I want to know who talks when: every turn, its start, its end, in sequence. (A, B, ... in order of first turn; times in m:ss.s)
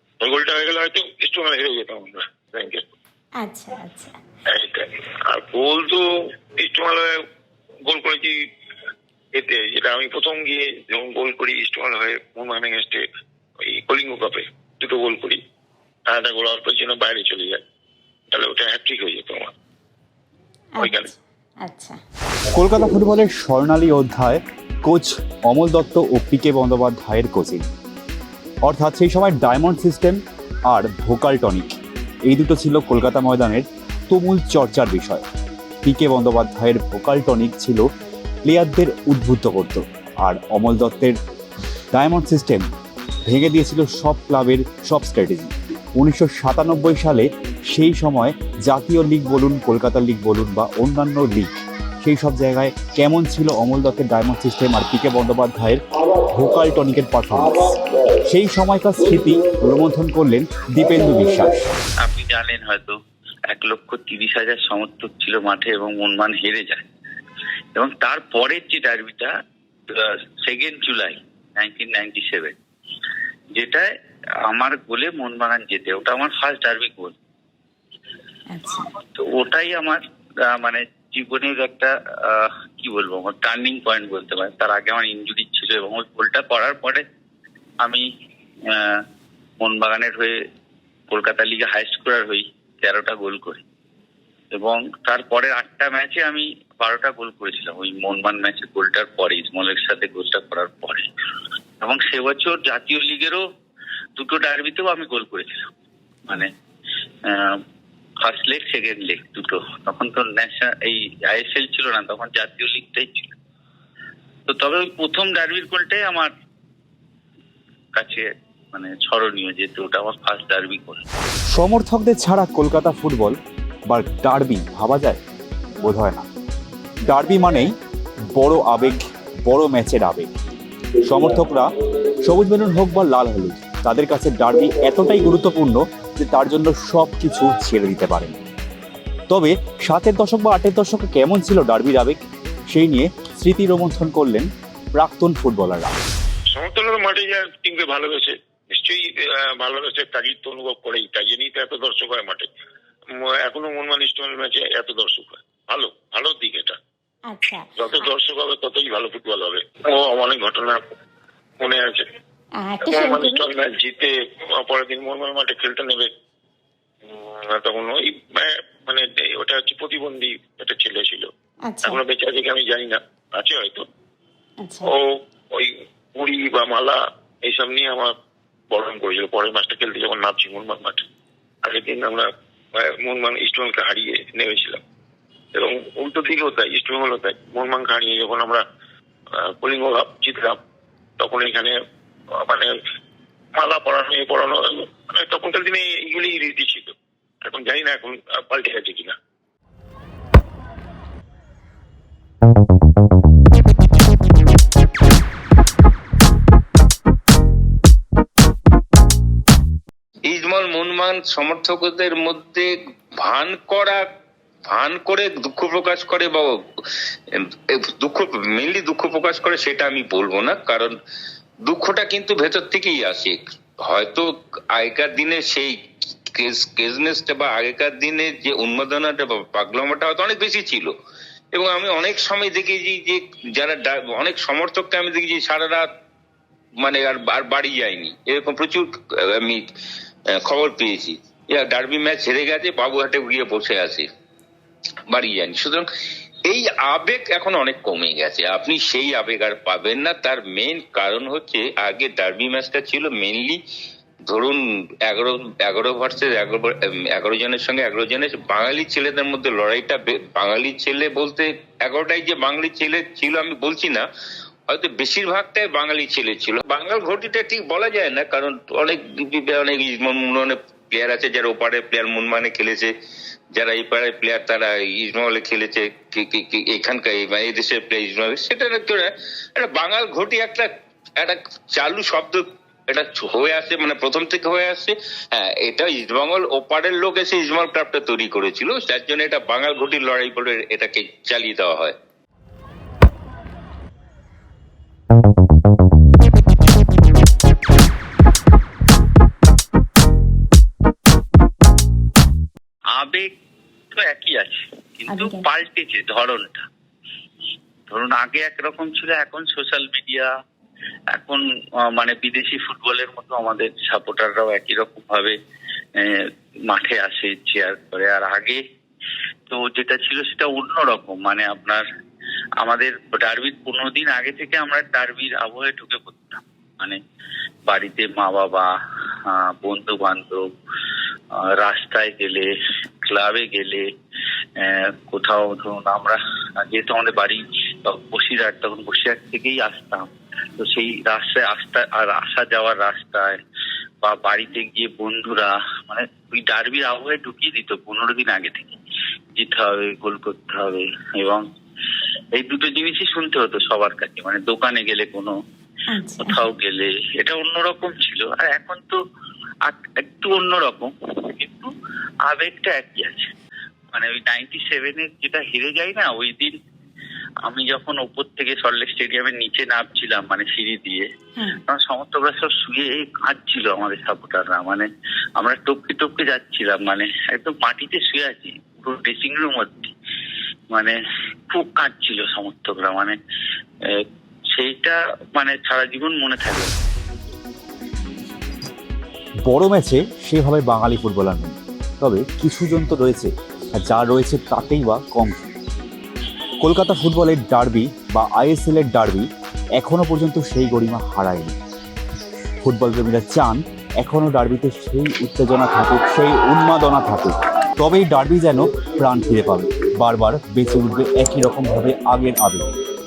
0:00.2-0:02.8 A
0:03.4-0:04.2 B
0:04.5-0:06.0 A
0:06.6-0:07.1 A
0:07.9-0:08.4 A
0:09.4-0:13.0 A
0:13.6-0:15.4 A
0:16.1-0:17.6 A
0:18.3-0:19.5 A
0:20.8-0:22.0 B
0:20.8-0:21.1 A
0:22.5-0:27.7 C
0:28.6-0:35.2 C
0:35.8-0:37.8 C
0:38.4-0:41.2 C
0:41.9-0:42.6 C
0:43.3-0:55.8 C
0:56.3-1:01.6 C
1:02.0-1:03.0 D
1:03.5-1:06.9 D
1:07.8-1:09.3 D
1:09.9-1:12.6 D
1:13.5-1:13.9 D
1:14.5-1:17.1 D
1:18.5-1:18.9 B
1:19.1-1:20.0 D
1:20.5-1:27.0 D
1:29.6-1:30.3 D
1:31.1-1:33.6 D
1:34.6-1:41.1 D
1:41.8-1:43.4 D
1:44.2-1:45.6 D
1:48.2-1:53.3 D
1:54.5-1:56.3 D
1:57.9-2:01.0 D
2:01.5-2:05.2 C
2:05.8-2:06.2 C
2:07.1-2:07.7 C
2:08.3-2:10.3 C
2:11.0-2:11.7 C
2:12.2-2:18.4 C
2:19.3-2:22.2 C
2:22.7-2:25.9 C
2:26.5-2:32.5 A
2:33.2-2:36.8 A
2:37.3-2:37.6 B
2:37.8-2:40.8 A
2:41.6-2:42.0 A
2:42.6-2:43.5 B
2:42.8-2:46.1 A
2:47.0-2:51.3 A
2:51.7-2:52.0 B
2:51.8-2:53.8 A
2:54.6-2:54.9 B
2:54.8-2:58.1 A
2:58.7-3:01.0 A
3:01.6-3:04.8 A
3:05.5-3:08.6 A
3:09.4-3:10.6 A
3:11.2-3:11.7 A
3:12.4-3:12.7 A
3:13.6-3:19.1 A
3:30.2-3:34.0 E
3:34.7-3:40.9 E
3:41.7-3:45.7 E
3:46.3-3:50.9 E
3:51.5-3:55.9 E
3:56.8-3:59.6 E
4:00.4-4:04.1 E
4:05.1-4:05.9 E
4:06.5-4:13.6 E
4:14.3-4:24.0 E
4:24.7-4:32.9 E
4:33.5-4:51.9 E
5:02.9-5:03.3 D
5:03.9-5:06.6 D
5:05.1-5:05.4 B
5:07.9-5:10.3 D
5:11.1-5:11.4 D
5:11.9-5:15.4 D
5:16.7-5:18.6 D
5:19.5-5:21.8 D
5:22.6-5:27.0 D
5:27.7-5:28.7 D
5:29.3-5:30.4 D
5:31.6-5:32.5 D
5:33.0-5:33.8 D
5:34.6-5:40.0 D
5:40.6-5:43.4 D
5:44.0-5:48.8 D
5:49.4-5:51.4 D
5:52.3-5:55.3 D
5:55.9-5:56.4 B
5:56.2-5:59.0 D
5:59.7-6:01.7 D
6:02.3-6:03.3 D
6:03.9-6:06.5 D
6:07.4-6:11.1 D
6:11.6-6:19.9 D
6:21.5-6:23.2 D
6:24.5-6:26.7 D
6:29.4-6:35.5 C
6:36.6-6:41.6 C
6:42.6-6:52.7 C